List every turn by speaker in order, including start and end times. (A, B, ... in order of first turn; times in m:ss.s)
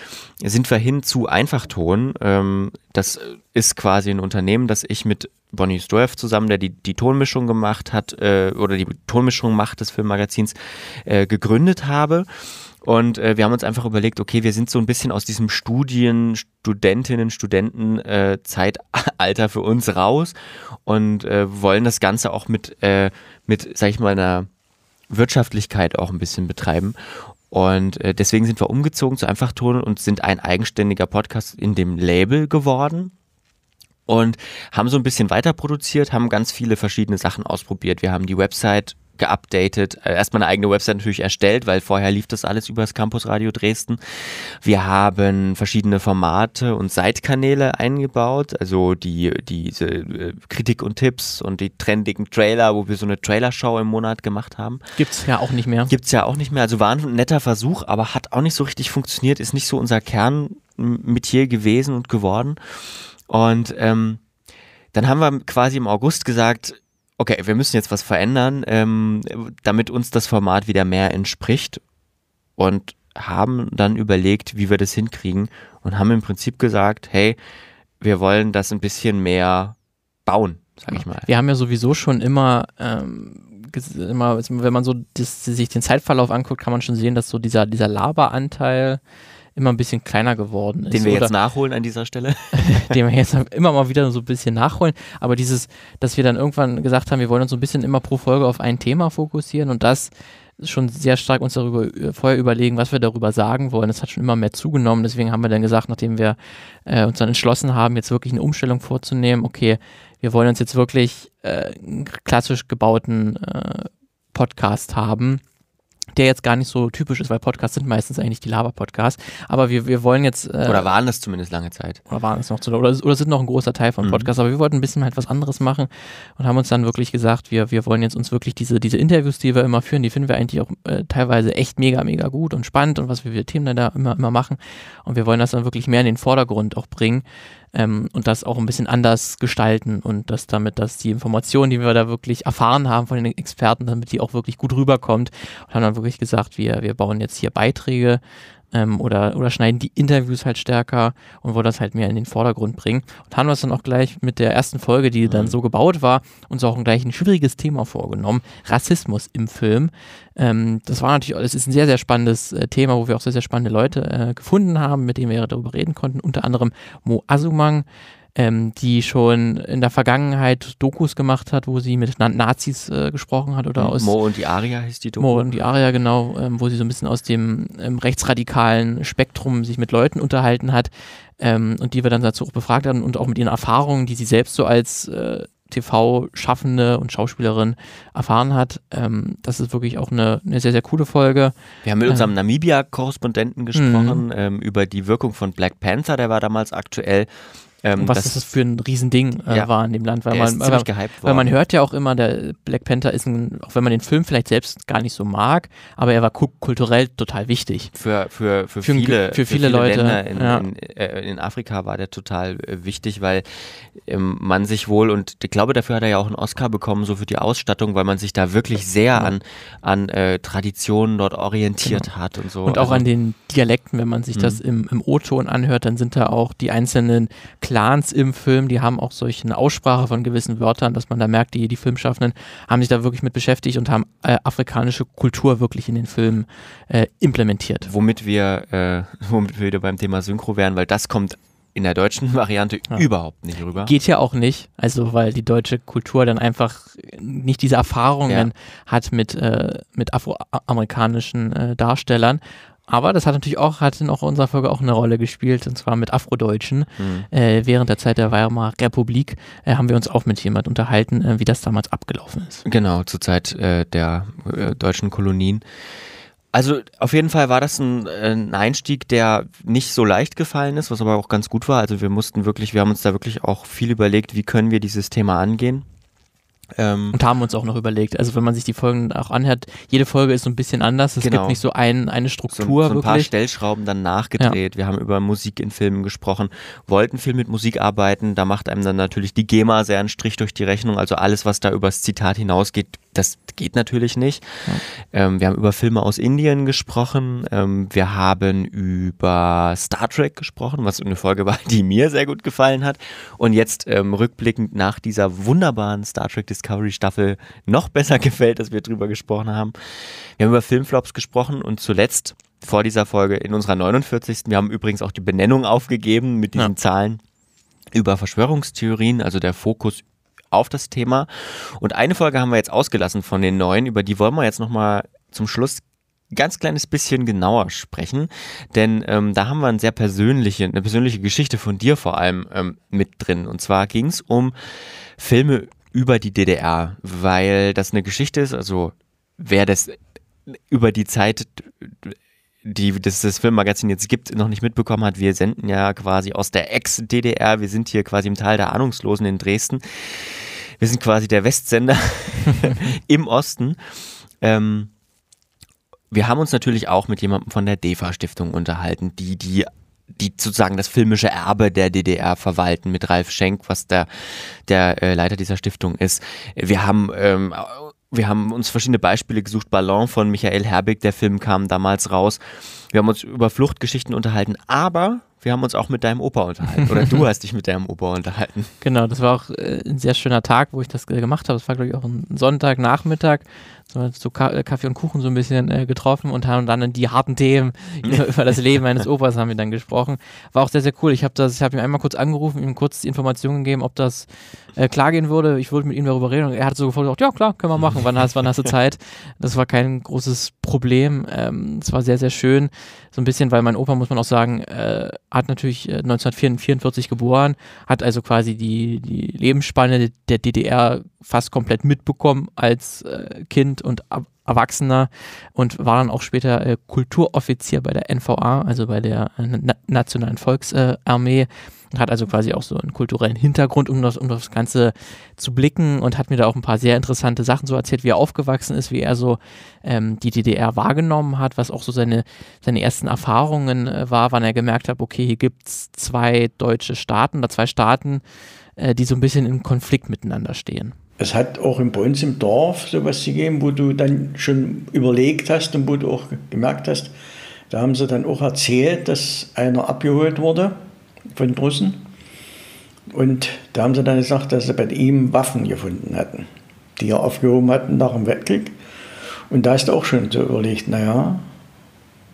0:00.4-0:12.3 A
0:12.8-0:20.4 A
0:20.9-0:24.5 A
0:25.1-0:27.0 A
0:27.5-0:33.1 A
0:34.1-0:44.0 A
0:44.6-0:54.8 A
0:55.0-0:55.9 B
0:55.9-1:02.6 A
1:03.3-1:04.2 A
1:04.9-1:11.8 A
1:12.6-1:17.4 A
1:18.0-1:21.3 A
1:20.9-1:29.0 B
1:29.6-1:31.3 B
1:30.9-1:32.8 A
1:32.6-1:55.4 B
1:56.2-2:00.9 B
2:00.7-2:02.0 A
2:02.1-2:28.2 B
2:04.0-2:04.3 A
2:28.7-2:54.1 B
2:35.3-2:35.6 A
2:53.8-2:55.5 A
2:55.2-3:11.5 B
3:11.8-3:17.3 A
3:13.8-3:14.2 B
3:17.8-3:18.5 A
3:18.0-3:27.9 B
3:20.3-3:21.5 A
3:27.9-3:33.4 A
3:28.8-3:30.7 B
3:34.0-3:43.0 A
3:41.8-3:42.1 B
3:42.7-3:57.9 B
3:57.8-4:03.9 A
4:03.8-4:22.6 B
4:17.0-4:17.3 A
4:22.7-4:25.6 A
4:26.5-4:35.9 A
4:36.8-4:37.2 A
4:37.1-4:43.3 B
4:41.2-4:41.6 A
4:42.5-4:54.6 A
4:55.1-5:09.8 A
5:10.4-5:17.2 A
5:17.9-5:34.6 A
5:35.2-5:40.0 A
5:40.7-5:53.8 A
5:54.4-5:54.9 A
5:56.1-6:12.4 A
6:12.9-6:18.7 A
6:16.8-6:17.2 B
6:18.8-7:18.2 B
7:18.8-7:21.0 B
7:21.2-7:27.1 C
7:27.7-7:30.8 C
7:31.3-7:32.0 C
7:33.1-7:38.8 C
7:39.5-7:41.4 C